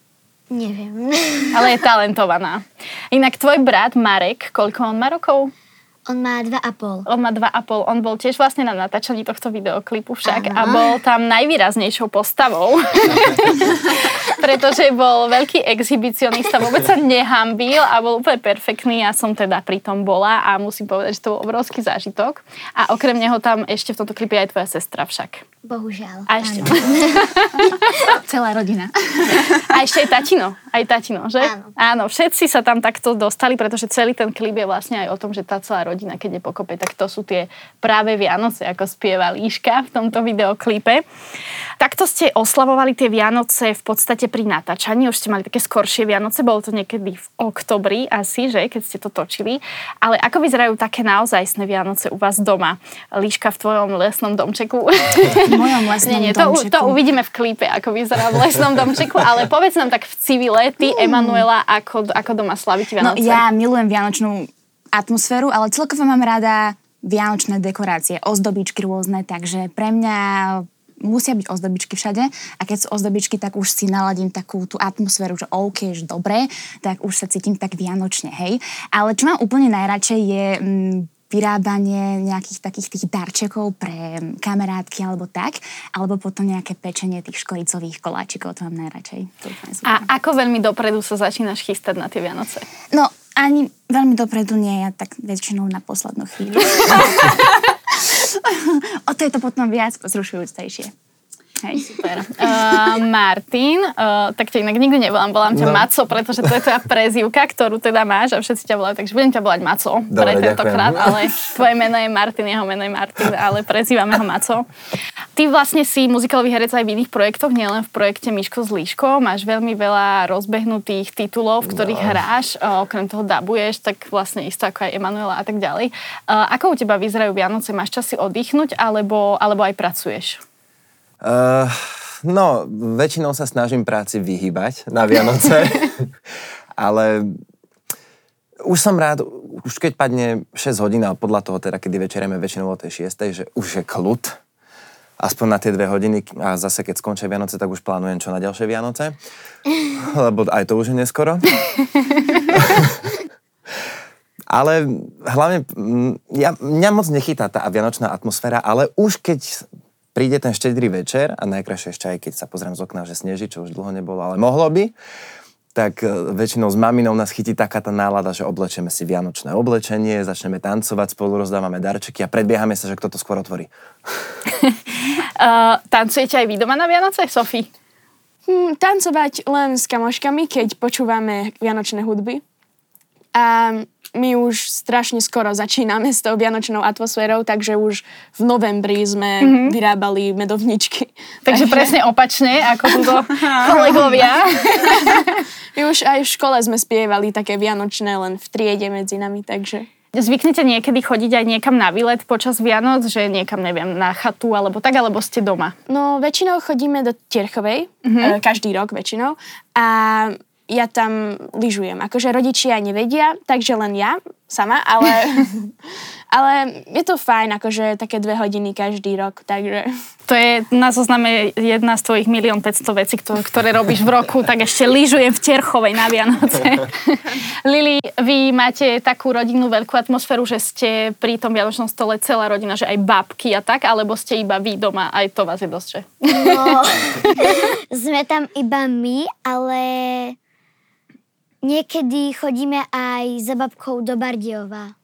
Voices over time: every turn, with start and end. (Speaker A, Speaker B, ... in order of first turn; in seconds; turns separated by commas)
Speaker A: 0.5-1.7, Speaker B: 1.5-5.5, Speaker A: 6.1-7.1, Speaker B: 7.1-25.4, Speaker A: 10.2-10.9, Speaker A: 25.7-27.3, Speaker B: 26.3-28.0, Speaker C: 26.4-27.0, Speaker C: 27.5-29.8, Speaker B: 29.6-41.0, Speaker A: 31.4-31.7, Speaker B: 41.8-63.4, Speaker C: 55.4-57.0, Speaker C: 61.0-61.4, Speaker C: 63.0-90.1, Speaker B: 89.8-92.7, Speaker C: 92.9-100.9, Speaker C: 101.6-102.8, Speaker B: 102.3-114.7, Speaker D: 105.5-105.9, Speaker D: 110.1-111.4, Speaker B: 115.4-130.4, Speaker D: 121.7-122.2, Speaker D: 131.2-136.1, Speaker D: 136.8-137.4, Speaker D: 138.6-144.4, Speaker D: 145.2-149.2, Speaker D: 149.9-151.5, Speaker D: 152.5-153.0, Speaker D: 154.5-164.9, Speaker D: 165.8-174.2, Speaker B: 174.6-177.7, Speaker E: 178.5-182.4, Speaker E: 183.3-191.9, Speaker B: 189.4-189.8, Speaker B: 191.5-195.4, Speaker E: 193.0-195.2, Speaker C: 193.6-193.9, Speaker E: 195.8-199.9, Speaker B: 200.1-205.7, Speaker E: 205.9-215.7, Speaker B: 208.1-208.4, Speaker E: 216.3-219.9, Speaker B: 220.3-237.5, Speaker A: 236.3-240.4, Speaker A: 241.6-244.9